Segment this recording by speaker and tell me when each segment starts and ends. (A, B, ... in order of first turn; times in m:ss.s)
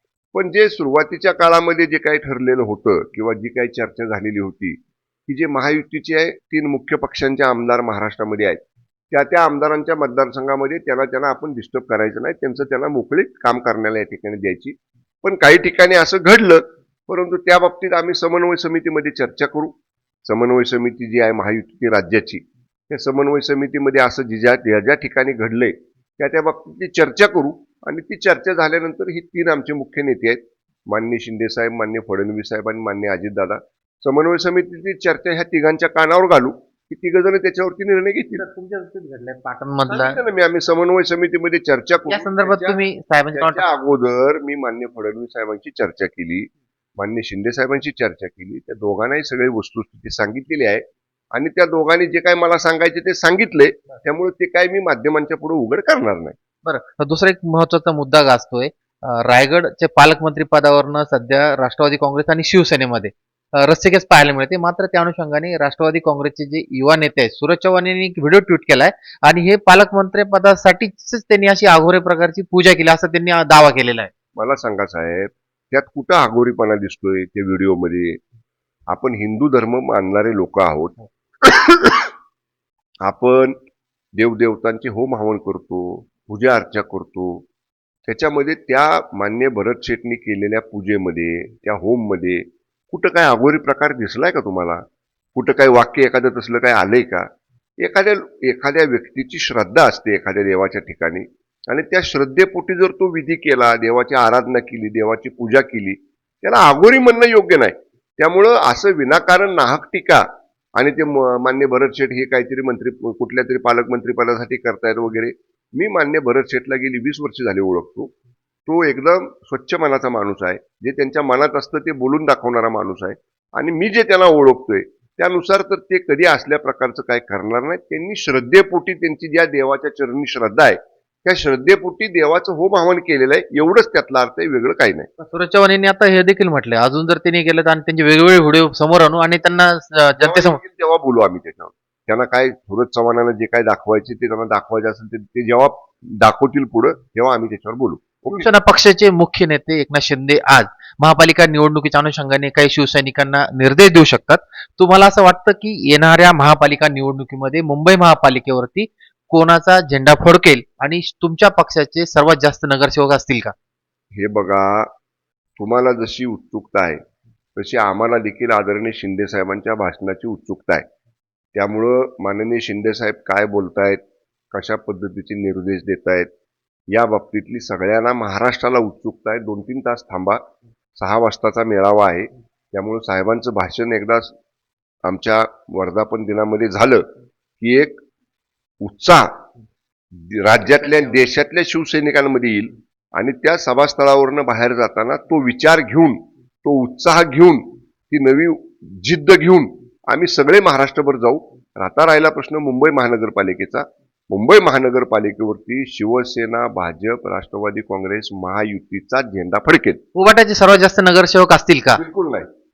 0:00.3-0:19.7 A
0:20.2-0:38.4 A
0:38.4-0:40.2 B
0:39.9-0:42.8 A
0:42.1-0:43.6 B
0:43.3-0:56.4 A
0:56.6-1:14.1 B
1:14.4-1:18.2 A
1:18.9-1:22.1 A
1:23.0-1:23.6 A
1:24.2-1:27.4 A
1:28.1-1:34.8 A
1:35.3-1:37.3 A
1:37.8-1:50.2 A
1:50.8-1:58.1 A
1:58.7-2:15.1 A
2:15.2-2:20.6 B
2:20.2-2:28.5 A
2:28.3-2:43.5 B
2:44.2-2:44.9 A
2:45.6-2:47.0 A
2:47.6-2:50.8 A
2:51.5-2:54.0 A
2:54.5-2:56.3 A
2:56.9-3:00.4 A
3:01.0-3:04.3 A
3:05.0-3:07.0 A
3:07.6-3:08.0 A
3:08.8-3:09.3 A
3:10.2-3:30.0 A
3:30.2-3:32.0 B
3:32.0-3:32.5 A